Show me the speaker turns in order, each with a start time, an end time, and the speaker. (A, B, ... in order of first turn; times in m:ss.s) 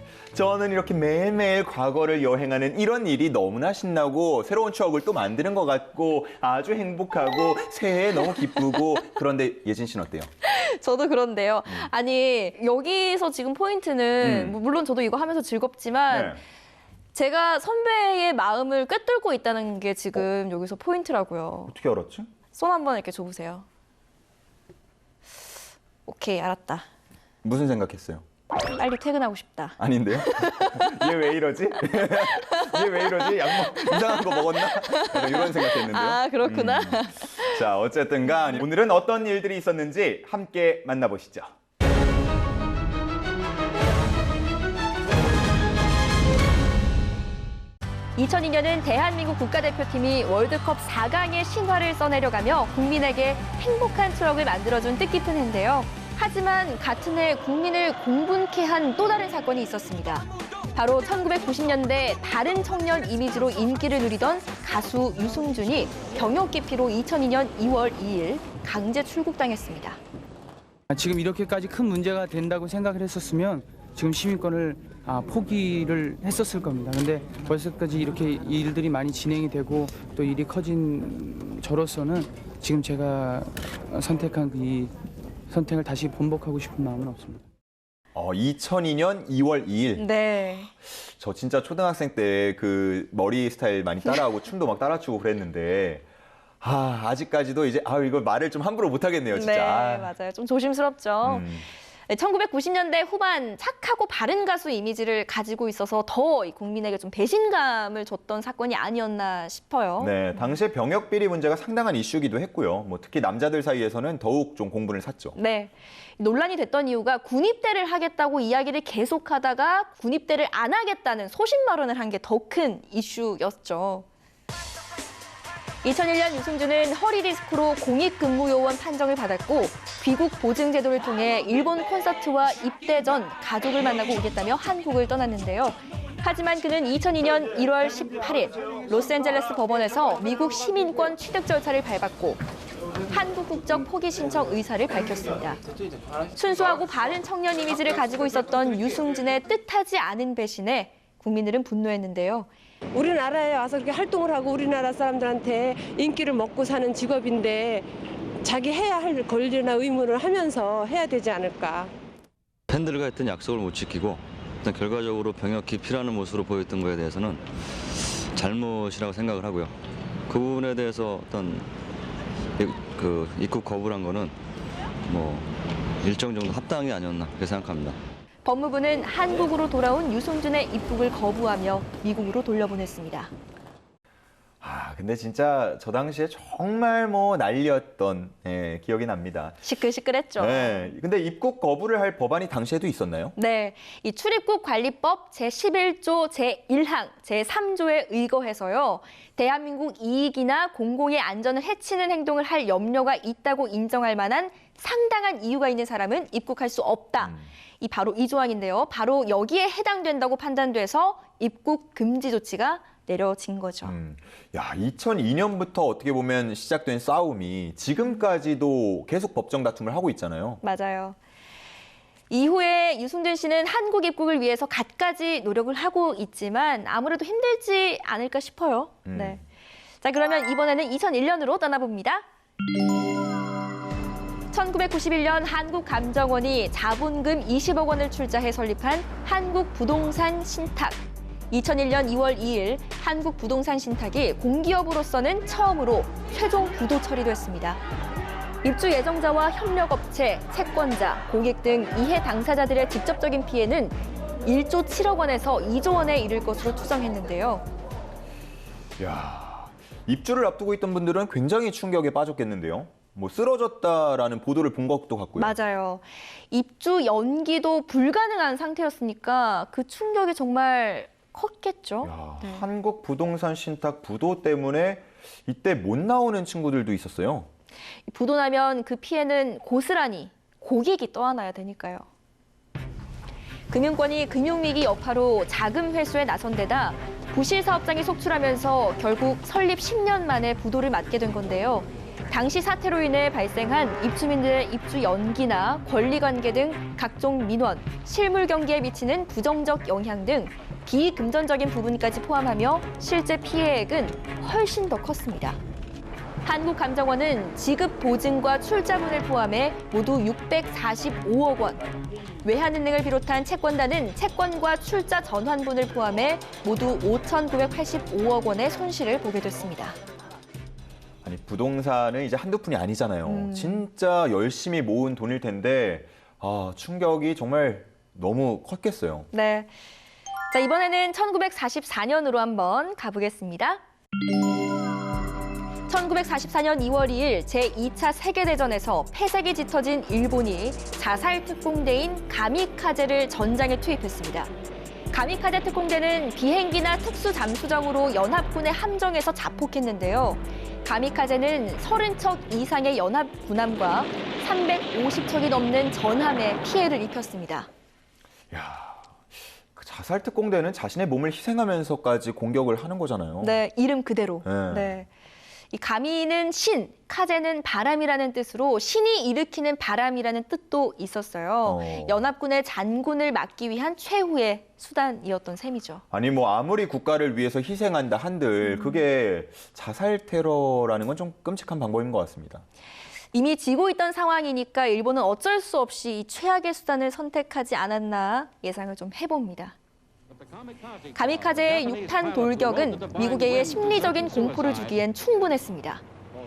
0:00.3-0:10.3 A
0:10.4-0:16.4 B
0:14.2-0:14.6 A
0:16.1-0:16.4 A
0:17.1-0:21.7 B
0:21.7-0:22.3 A
0:22.5-0:23.6 B
0:26.0-0:26.8 B
0:27.4-0:28.2 A
0:28.7-0:31.0 B
0:29.8-0:41.5 A
0:32.4-0:37.6 B
0:48.2-1:10.0 B
1:10.9-1:24.9 C
1:25.5-1:27.4 C
1:28.1-1:30.0 A
1:30.0-1:30.7 B
1:30.8-1:36.0 A
1:36.6-1:40.1 A
1:39.3-1:50.2 B
1:41.2-1:41.6 A
1:50.0-1:55.4 A
1:55.3-2:04.0 B
2:05.8-2:22.4 B
2:23.1-2:25.6 B
2:26.3-2:32.5 B
2:32.9-2:37.9 D
2:38.4-2:41.9 D
2:42.7-2:49.7 E
2:50.3-2:51.7 E
2:52.6-2:54.3 E
2:55.0-2:55.5 E
2:56.0-2:58.0 E
2:58.4-3:03.3 B
3:04.6-3:09.6 A
3:09.6-3:10.8 B
3:10.4-3:13.3 A
3:13.4-3:33.9 B
3:33.8-3:40.6 A
3:40.6-3:41.2 B
3:42.3-3:49.4 B
3:49.0-3:49.4 A
3:50.0-3:52.2 B
3:54.5-4:07.8 B
4:08.6-4:17.6 B
4:19.0-4:25.5 A
4:25.4-4:32.6 B
4:32.0-4:37.5 A
4:38.1-4:42.0 B
4:43.7-5:05.6 B
5:06.4-5:11.8 B
5:12.4-5:20.0 B
5:21.2-5:29.3 A
5:23.2-5:23.8 B
5:29.3-5:29.7 B
5:30.5-5:33.8 B
5:35.9-5:44.5 B
5:45.1-5:57.7 B
5:58.5-5:59.2 A
5:59.7-6:03.6 A
6:03.4-6:05.1 B
6:04.4-6:05.0 A
6:05.7-6:16.0 B
6:11.6-6:12.2 A
6:16.1-6:22.6 A
6:18.6-6:19.0 B
6:23.3-6:29.8 B
6:31.1-6:36.0 B